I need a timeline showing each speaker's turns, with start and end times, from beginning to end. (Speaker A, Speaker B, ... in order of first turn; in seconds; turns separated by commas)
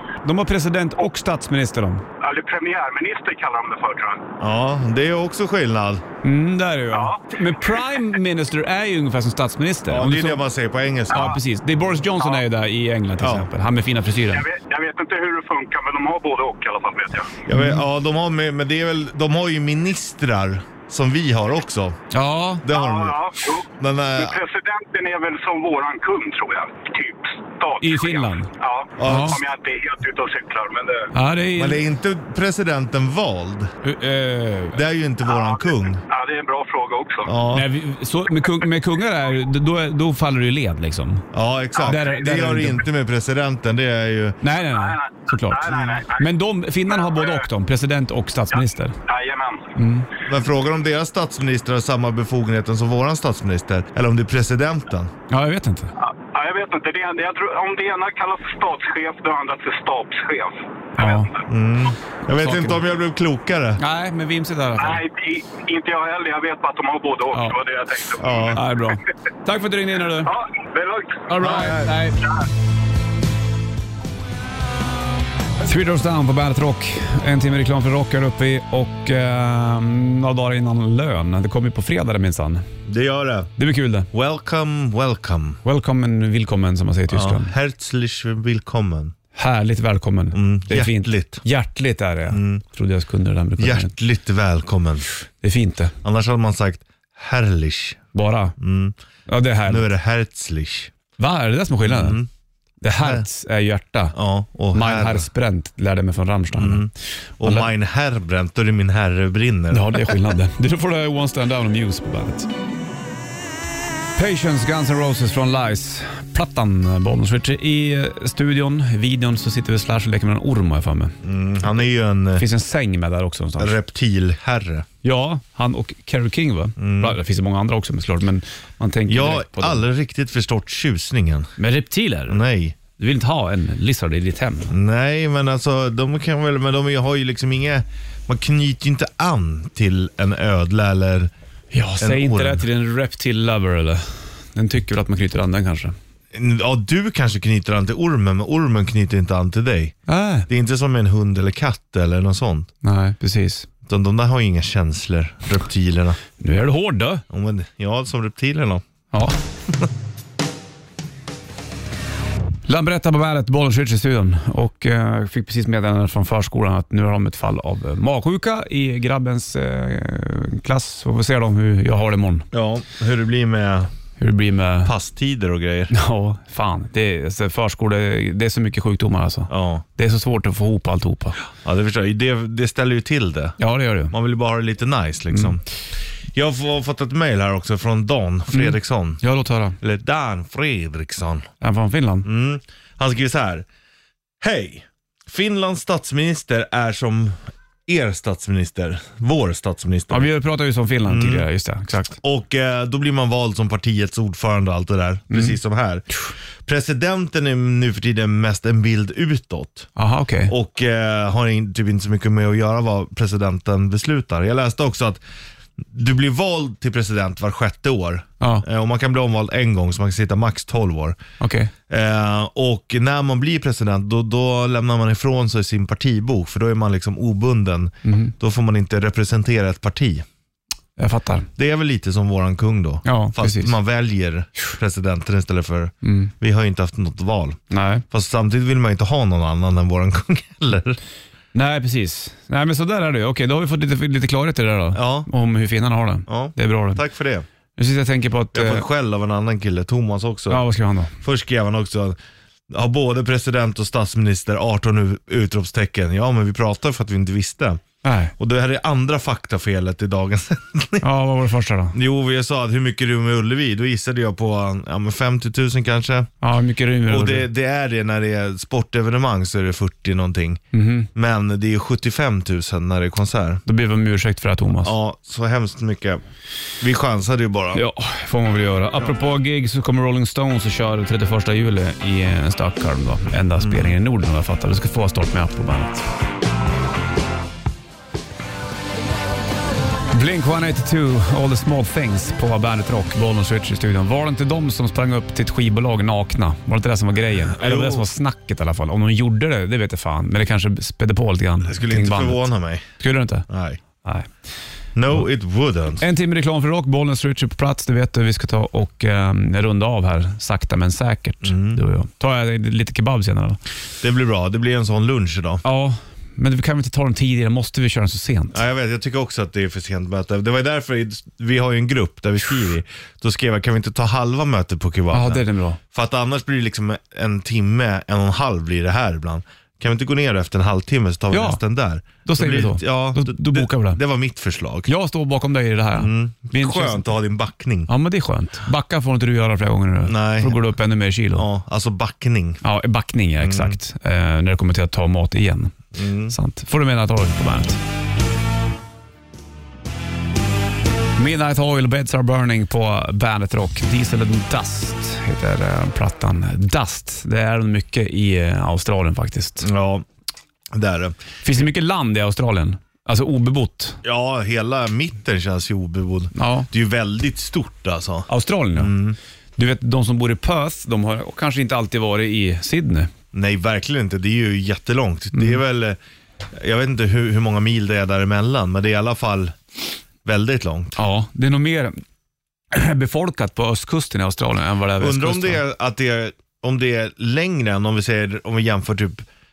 Speaker A: 0.2-2.0, Speaker B: 2.2-4.2, Speaker C: 4.4-6.0, Speaker A: 6.2-10.4, Speaker B: 6.9-8.0, Speaker C: 9.9-11.3, Speaker A: 11.1-14.4, Speaker B: 11.1-11.4, Speaker C: 13.2-13.5, Speaker B: 14.3-17.3, Speaker C: 17.4-22.0, Speaker A: 17.5-17.8, Speaker A: 22.1-22.6, Speaker C: 22.6-24.4, Speaker B: 22.7-31.1, Speaker A: 27.8-28.5, Speaker C: 29.0-29.4, Speaker A: 29.0-29.4, Speaker A: 31.1-31.8, Speaker C: 31.6-33.7, Speaker A: 33.8-34.8, Speaker C: 34.7-36.0, Speaker B: 35.2-37.3, Speaker C: 37.2-37.7, Speaker A: 37.5-41.2, Speaker C: 41.3-44.4, Speaker B: 41.8-42.1, Speaker A: 41.8-42.8, Speaker A: 44.4-49.0, Speaker B: 44.7-46.2, Speaker B: 46.9-47.4, Speaker B: 48.5-49.7, Speaker A: 49.8-50.1, Speaker C: 50.2-55.1, Speaker A: 55.3-55.9, Speaker B: 56.0-61.4, Speaker A: 61.0-61.3, Speaker C: 61.5-63.8, Speaker A: 62.3-62.8, Speaker A: 63.8-65.0, Speaker B: 64.8-68.6, Speaker A: 67.3-67.6, Speaker C: 68.2-68.6, Speaker A: 68.5-70.3, Speaker B: 70.2-71.3, Speaker A: 71.3-72.2, Speaker C: 71.4-72.0, Speaker A: 75.6-82.6, Speaker C: 82.8-83.5, Speaker A: 83.6-84.1, Speaker C: 84.1-85.6, Speaker A: 85.6-87.5, Speaker C: 87.1-89.1, Speaker A: 89.3-93.9, Speaker C: 90.3-91.4, Speaker C: 92.3-92.6, Speaker C: 93.6-95.1, Speaker A: 95.4-95.9, Speaker C: 96.0-98.0, Speaker A: 98.1-98.5, Speaker C: 98.6-98.9, Speaker A: 99.3-99.9, Speaker C: 99.7-100.9, Speaker A: 101.2-102.2, Speaker C: 101.8-102.3, Speaker A: 102.8-104.1, Speaker C: 104.1-105.3, Speaker A: 104.7-106.9, Speaker C: 106.5-110.2, Speaker A: 107.4-107.7, Speaker A: 109.7-112.5, Speaker A: 114.2-121.1, Speaker C: 121.2-122.4, Speaker A: 122.4-123.7, Speaker C: 123.6-124.9, Speaker A: 125.0-129.8, Speaker C: 126.8-127.2, Speaker C: 129.1-131.5, Speaker A: 131.6-134.7, Speaker C: 132.3-132.8, Speaker C: 134.7-141.3, Speaker A: 141.7-145.9, Speaker C: 142.0-142.6, Speaker C: 146.3-149.9, Speaker A: 150.1-150.5, Speaker C: 150.5-152.7, Speaker A: 152.8-153.7, Speaker C: 153.8-156.2, Speaker A: 156.4-157.2, Speaker C: 157.3-158.8, Speaker A: 159.1-159.4, Speaker A: 162.7-172.5, Speaker C: 172.5-173.9, Speaker A: 174.2-174.9, Speaker C: 174.8-175.9, Speaker A: 175.9-181.4, Speaker C: 179.5-179.8, Speaker C: 181.6-183.6, Speaker A: 183.6-184.1, Speaker C: 184.1-185.6, Speaker C: 186.3-189.2, Speaker A: 188.5-189.8, Speaker C: 189.8-191.5, Speaker A: 191.6-192.3, Speaker C: 192.2-193.7, Speaker C: 194.4-200.3, Speaker A: 200.1-202.2, Speaker C: 201.1-201.4, Speaker C: 202.1-206.0, Speaker C: 206.6-209.9, Speaker A: 209.9-210.5, Speaker C: 210.5-215.2, Speaker C: 215.8-221.2, Speaker A: 218.4-218.6, Speaker A: 221.4-221.7, Speaker C: 221.9-230.2, Speaker A: 228.0-228.3, Speaker A: 231.0-231.5, Speaker C: 231.6-241.0, Speaker A: 233.0-233.7, Speaker A: 236.0-236.3, Speaker A: 237.7-238.0, Speaker A: 241.5-247.0, Speaker C: 244.9-245.3, Speaker C: 246.3-247.4, Speaker A: 247.8-248.8, Speaker C: 248.5-250.6, Speaker A: 250.5-251.1, Speaker C: 251.2-252.2, Speaker C: 252.7-257.8, Speaker A: 258.0-258.3, Speaker C: 258.4-261.1, Speaker A: 261.0-261.9, Speaker C: 261.9-266.3, Speaker A: 266.4-267.5, Speaker C: 267.1-270.6, Speaker A: 270.7-271.1, Speaker C: 271.1-273.6, Speaker A: 273.6-274.9, Speaker C: 274.8-276.2, Speaker C: 276.8-277.8, Speaker A: 277.7-286.1, Speaker C: 283.6-284.0, Speaker A: 290.1-302.5, Speaker C: 297.5-298.1, Speaker C: 301.6-302.9, Speaker A: 303.0-303.5, Speaker C: 303.5-303.8, Speaker A: 304.0-304.3, Speaker C: 304.9-306.0, Speaker A: 306.0-313.6, Speaker C: 311.4-311.8, Speaker C: 314.0-315.6, Speaker A: 315.6-318.6, Speaker C: 318.5-334.9, Speaker A: 325.1-325.8, Speaker A: 331.3-331.6, Speaker A: 332.2-334.0, Speaker A: 334.9-337.1, Speaker C: 335.9-337.9, Speaker A: 337.9-341.4, Speaker C: 340.0-340.6, Speaker C: 341.3-342.6, Speaker A: 342.6-345.8, Speaker C: 343.4-343.8, Speaker C: 345.9-346.3, Speaker A: 346.3-347.8, Speaker A: 351.2-359.6, Speaker C: 359.6-360.1, Speaker C: 360.7-361.6, Speaker A: 361.4-364.0, Speaker C: 364.0-369.2, Speaker A: 366.3-366.7, Speaker A: 368.3-368.9, Speaker A: 369.6-373.1, Speaker C: 373.3-376.0, Speaker A: 375.3-375.6, Speaker C: 376.5-379.6, Speaker C: 380.2-381.0, Speaker A: 380.9-381.9, Speaker A: 382.7-385.6, Speaker C: 385.0-389.2